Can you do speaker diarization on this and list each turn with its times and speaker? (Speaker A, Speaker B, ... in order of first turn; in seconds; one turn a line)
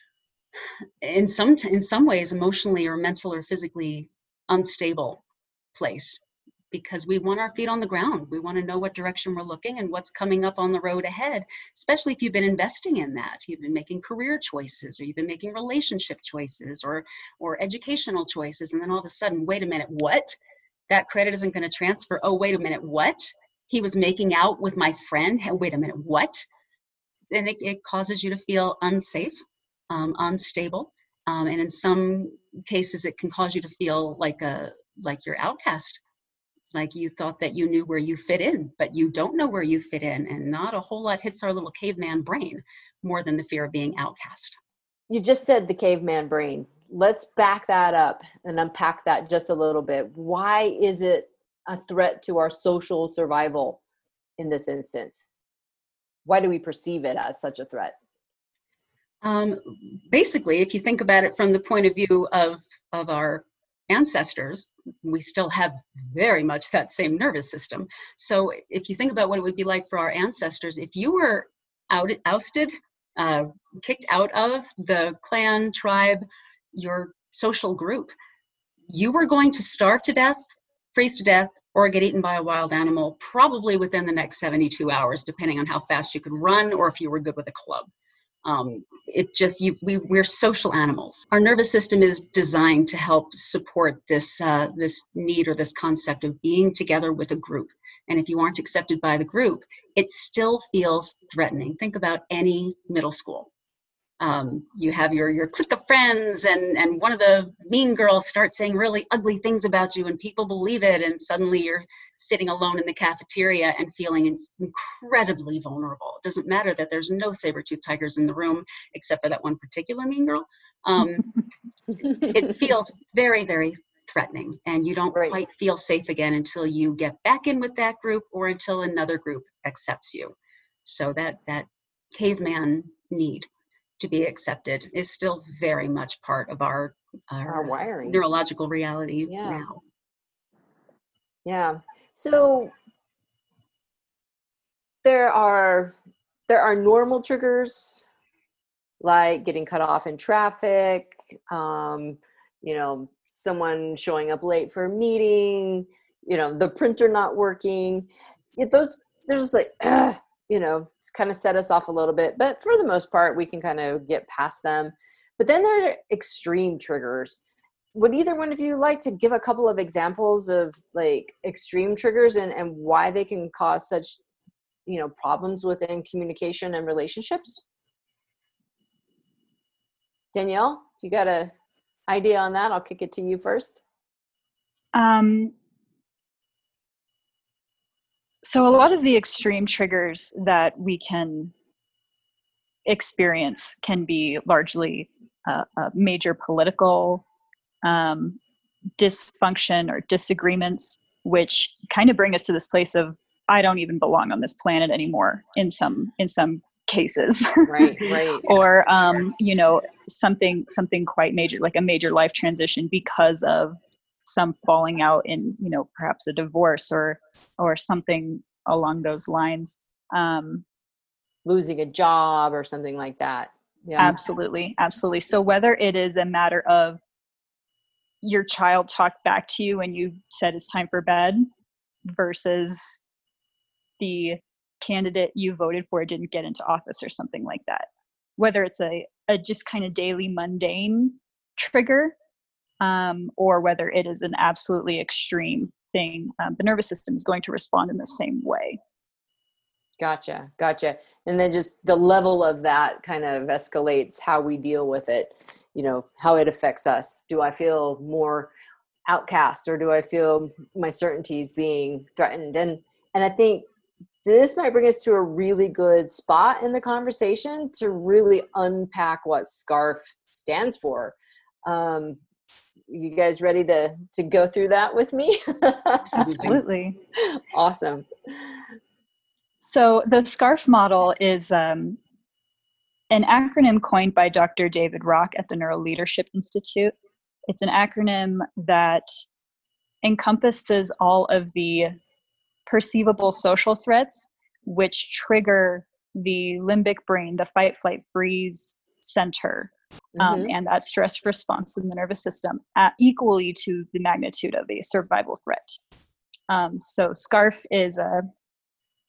Speaker A: 1.0-5.2
Speaker A: 5.8-6.2
Speaker A: 6.7-20.4
Speaker A: 20.9-26.5
Speaker A: 27.3-29.4
Speaker A: 29.9-36.0
Speaker A: 36.7-44.6
Speaker B: 45.1-53.8
Speaker B: 54.4-55.2
Speaker B: 56.3-58.0
Speaker A: 59.2-78.2
Speaker A: 78.9-80.4
Speaker A: 80.9-87.9
Speaker A: 88.4-103.5
Speaker A: 104.2-121.3
Speaker A: 122.2-130.3
Speaker A: 130.8-133.5
Speaker A: 134.0-139.8
Speaker B: 137.5-138.2
Speaker B: 139.3-139.7
Speaker B: 141.4-142.7
Speaker B: 145.0-145.9
Speaker B: 146.5-148.1
Speaker B: 149.0-167.4
Speaker B: 167.9-174.2
Speaker B: 174.9-177.6
Speaker B: 180.3-181.5
Speaker B: 182.1-183.8
Speaker C: 184.9-185.5
Speaker C: 188.4-191.5
Speaker C: 192.9-197.2
Speaker C: 197.8-198.4
Speaker C: 199.0-220.7
Speaker B: 207.7-208.5
Speaker B: 221.4-224.2
Speaker C: 224.0-227.0
Speaker C: 228.2-231.4
Speaker C: 232.2-233.0
Speaker C: 234.0-242.2
Speaker C: 242.8-248.8
Speaker B: 250.0-258.5
Speaker B: 259.1-263.7
Speaker B: 264.2-271.1
Speaker B: 271.7-272.2
Speaker B: 272.9-276.6
Speaker A: 276.1-276.5
Speaker C: 276.4-277.0
Speaker B: 277.1-278.1
Speaker C: 279.6-282.0
Speaker C: 283.1-286.9
Speaker C: 287.5-289.1
Speaker C: 290.0-292.0
Speaker C: 292.7-305.8
Speaker B: 300.2-300.5
Speaker C: 306.5-308.2